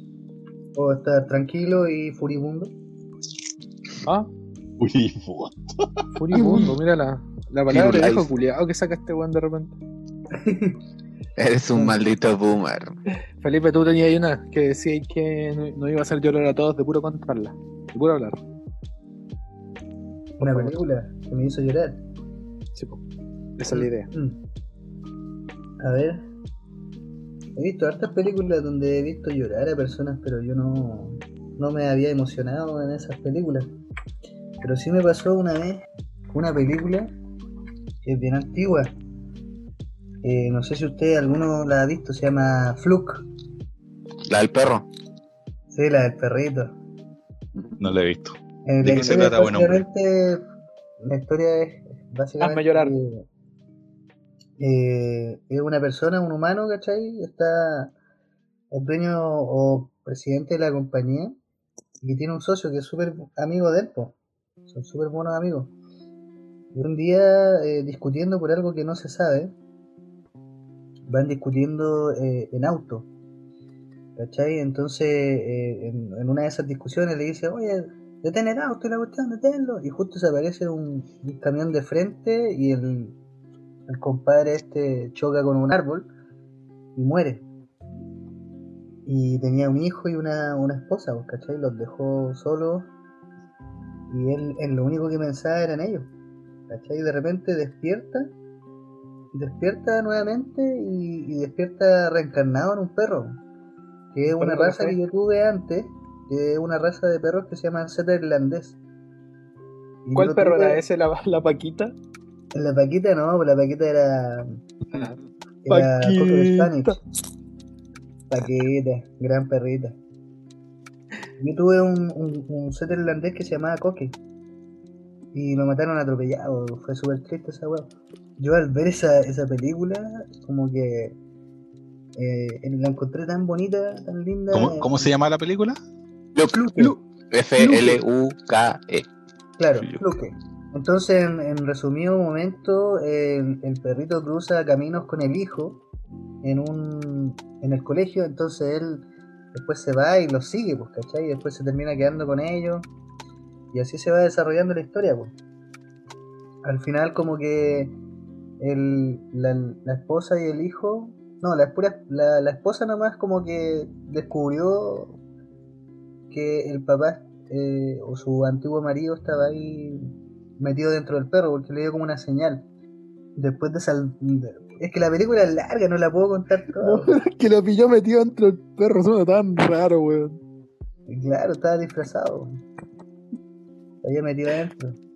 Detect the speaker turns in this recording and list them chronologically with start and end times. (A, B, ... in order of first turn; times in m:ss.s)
0:00.7-0:02.7 A
0:04.8-0:06.6 B
0:06.2-0:09.8 C
0:07.7-0:08.3 D
0:10.3-0:10.8 A
0:11.4-0:12.9 D
0:13.4-0:18.4 C
0:20.4-0:22.0 A
0:20.4-0:20.8 C
0:22.7-0:23.0 C
0:23.6-0:24.1 C
0:23.7-0:24.4 A
0:25.8-0:26.3 A
0:27.6-0:33.7 A
0:34.6-0:37.1 A
0:38.0-0:38.9 A
0:40.2-0:43.3 A
0:44.2-0:44.9 D
0:45.7-0:46.8 A
0:47.8-0:49.8 B
0:48.6-0:50.4 A
0:48.9-0:49.2 C
0:51.0-0:53.2 A
0:52.4-0:52.9 C
0:54.6-0:57.9 A
0:58.7-1:01.4 A
1:02.0-1:04.2 A
1:04.7-1:05.7 A
1:06.7-1:09.5 A
1:11.1-1:13.1 A
1:14.2-1:23.2 A
1:23.9-1:26.1 A
1:27.0-1:27.4 A
1:29.0-1:32.9 A
1:34.1-1:36.1 A
1:36.7-1:38.3 A
1:39.3-1:43.4 A
1:44.1-1:48.8 A
1:44.4-1:45.0 C
1:50.0-1:50.8 A
1:50.1-1:51.9 C
1:52.5-1:54.6 A
1:54.9-1:57.0 C
1:55.6-1:57.0 A
1:58.3-2:00.0 A
2:01.4-2:04.2 A
2:05.3-2:11.2 A
2:12.2-2:15.0 A
2:14.5-2:15.8 B
2:16.3-2:19.1 D
2:16.5-2:17.0 A
2:17.6-2:18.0 A
2:19.6-2:25.8 A
2:26.4-2:32.9 A
2:33.7-2:35.3 A
2:36.6-2:38.0 A
2:38.6-2:45.2 A
2:46.3-2:52.7 A
2:53.4-2:57.1 A
2:56.8-3:00.4 C
3:01.1-3:02.6 A
3:04.0-3:05.0 A